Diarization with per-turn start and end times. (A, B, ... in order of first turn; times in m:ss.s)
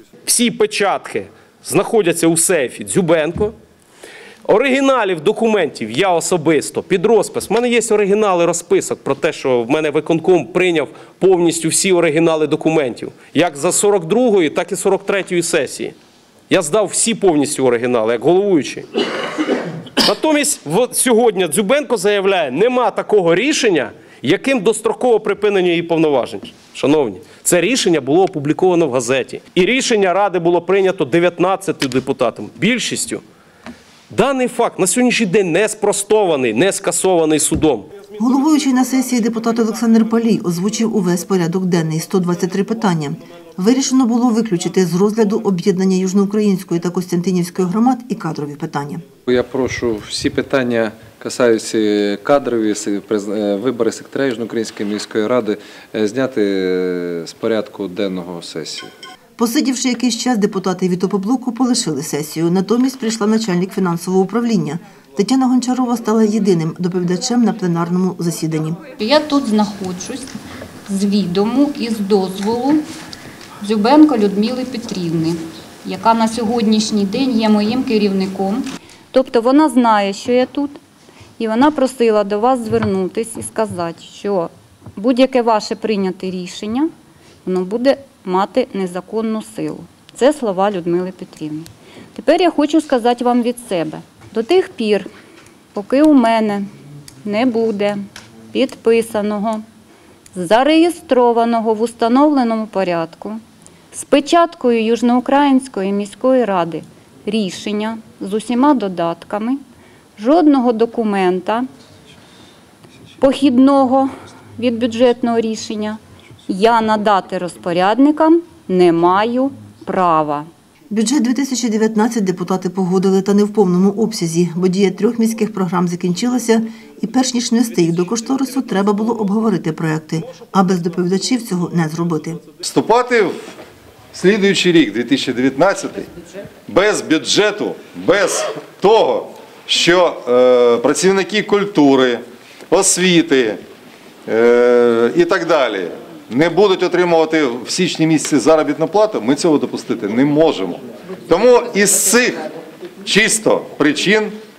0:00.2-0:03.5 A
0:04.4-0:15.9 A
0:16.5-0:18.9 A
0:20.0-0:33.2 A
0:34.1-0:37.9 A
0:38.2-0:49.0 B
0:49.2-0:58.9 C
0:59.4-1:08.9 B
1:08.9-1:10.3 D
1:10.9-1:12.8 D
1:13.6-1:20.8 D
1:21.4-1:26.9 D
1:27.4-1:35.1 D
1:35.7-1:36.7 D
1:37.2-1:39.6 D
1:40.3-1:43.4 D
1:43.9-1:49.6 D
1:50.2-1:51.7 D
1:53.2-2:00.5 D
2:00.9-2:12.5 B
2:12.6-2:13.5 E
2:14.1-2:16.1 E
2:16.7-2:23.6 E
2:24.3-2:32.4 E
2:33.0-2:34.4 E